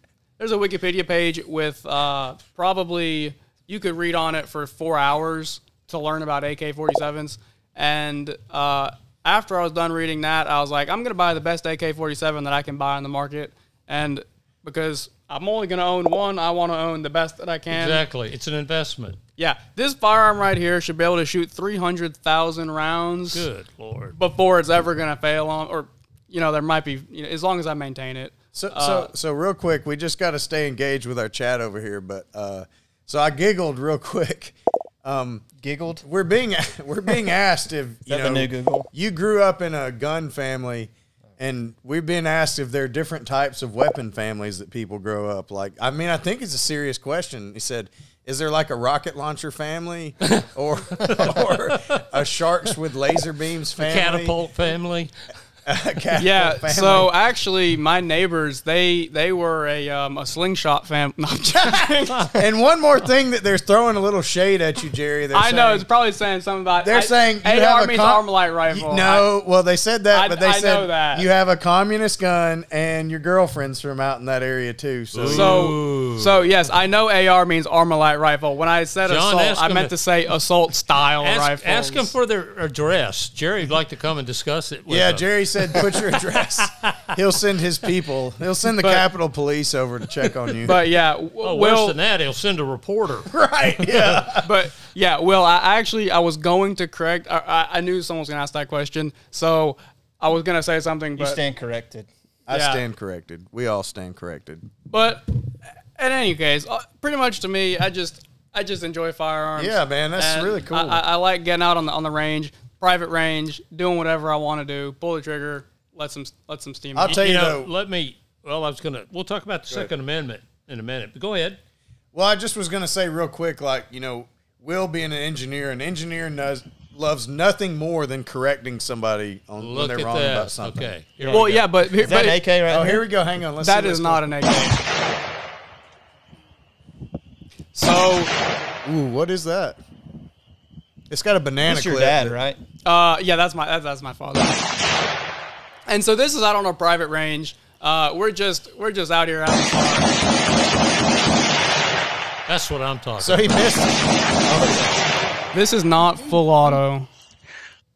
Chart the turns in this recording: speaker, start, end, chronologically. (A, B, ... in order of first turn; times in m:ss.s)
0:00.4-0:18.0 A
0:17.7-0:19.2 B
0:19.4-0:23.5 A
0:23.3-0:24.2 B
0:24.2-0:29.1 A
0:28.5-0:35.5 C
0:35.6-0:36.0 D
0:36.0-0:54.4 C
0:38.1-0:38.9 D
0:51.0-0:52.0 B
0:53.8-0:55.1 B
0:55.7-0:57.1 C
0:56.2-1:02.3 A
1:02.3-1:05.9 C
1:05.3-1:09.3 A
1:06.8-1:15.7 C
1:10.1-1:11.3 A
1:15.1-1:16.4 B
1:15.3-1:22.1 A
1:19.1-1:19.9 B
1:21.2-1:27.1 B
1:24.9-1:30.8 C
1:28.8-1:29.1 A
1:30.6-1:32.0 A
1:31.4-1:33.3 B
1:33.3-1:34.5 C
1:33.8-1:34.2 B
1:34.4-1:41.4 A
1:41.2-1:42.1 D
1:42.5-1:44.7 C
1:42.5-1:42.8 A
1:44.9-1:57.2 A
1:49.6-1:51.0 C
1:57.0-1:57.7 C
1:57.0-2:01.6 B
2:02.1-2:10.9 C
2:09.6-2:11.7 B
2:11.2-2:13.1 D
2:11.3-2:12.4 A
2:12.7-2:14.3 C
2:13.6-2:14.8 A
2:17.8-2:18.3 A
2:18.8-2:19.8 C
2:21.1-2:22.4 C
2:21.6-2:22.6 D
2:22.8-2:24.7 A
2:25.9-2:30.2 A
2:32.5-2:33.7 B
2:33.2-2:34.9 C
2:35.5-2:37.1 A